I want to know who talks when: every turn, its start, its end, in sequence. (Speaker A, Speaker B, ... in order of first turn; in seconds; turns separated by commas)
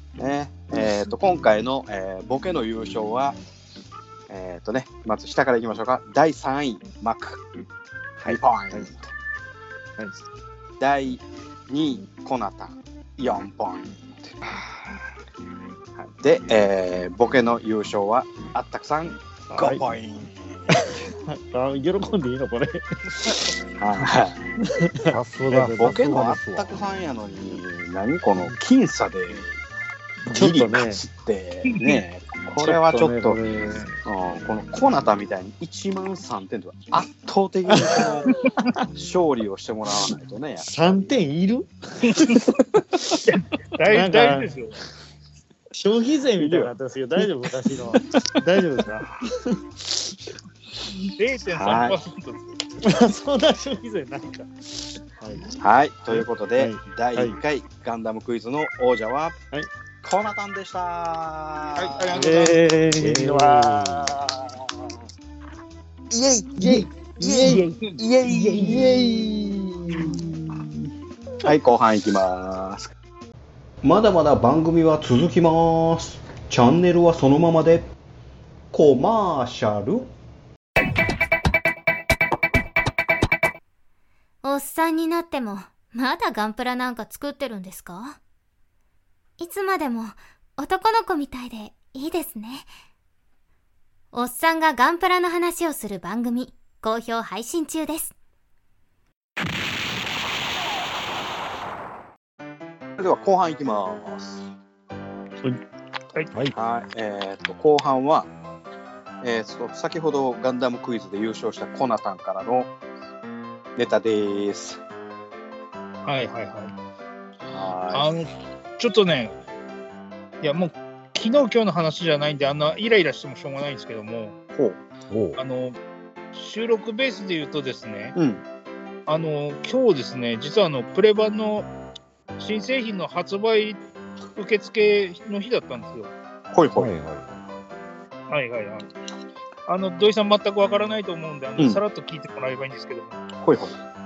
Speaker A: 0.2-3.4, Speaker A: 4.3-7.4, Speaker A: 8.3-9.1, Speaker A: 10.8-14.4, Speaker A: 16.0-21.0, Speaker B: 19.6-19.9, Speaker B: 20.8-23.4, Speaker A: 23.8-24.5, Speaker B: 24.7-26.2, Speaker C: 25.1-27.0, Speaker A: 25.8-29.5, Speaker B: 30.3-31.0, Speaker A: 30.3-33.4, Speaker D: 31.7-32.0, Speaker B: 32.6-34.0, Speaker A: 34.0-38.3, Speaker B: 37.7-38.1, Speaker A: 38.9-41.2, Speaker B: 40.6-42.4, Speaker D: 42.0-42.5, Speaker D: 43.3-44.8, Speaker B: 43.9-44.5, Speaker B: 45.7-50.2, Speaker A: 46.4-46.7, Speaker D: 51.2-52.5, Speaker A: 51.5-52.0, Speaker B: 52.8-54.5, Speaker B: 55.2-55.5, Speaker A: 55.6-59.4, Speaker B: 56.1-57.4, Speaker A: 60.0-62.2, Speaker D: 61.8-62.6, Speaker B: 62.1-64.2, Speaker C: 63.0-64.2, Speaker A: 66.1-70.2, Speaker B: 66.6-67.8, Speaker B: 68.3-69.2, Speaker B: 70.0-70.5, Speaker A: 71.4-72.9, Speaker A: 73.8-77.9, Speaker A: 78.7-80.1, Speaker E: 84.4-88.2, Speaker E: 89.4-92.7, Speaker E: 94.1-98.1, Speaker A: 103.0-104.5, Speaker A: 106.5-108.3, Speaker A: 109.2-112.7, Speaker A: 113.8-114.8, Speaker D: 116.0-116.7, Speaker A: 117.5-118.2, Speaker D: 117.9-119.3, Speaker D: 120.4-124.4, Speaker A: 124.5-124.8, Speaker C: 125.1-125.4, Speaker D: 125.4-125.8, Speaker D: 126.3-128.2, Speaker A: 128.2-128.4, Speaker D: 129.1-131.7, Speaker D: 132.4-133.8, Speaker D: 134.4-136.1, Speaker A: 136.5-136.9, Speaker C: 136.8-137.4, Speaker D: 138.3-138.9, Speaker D: 139.7-143.2, Speaker A: 143.4-143.8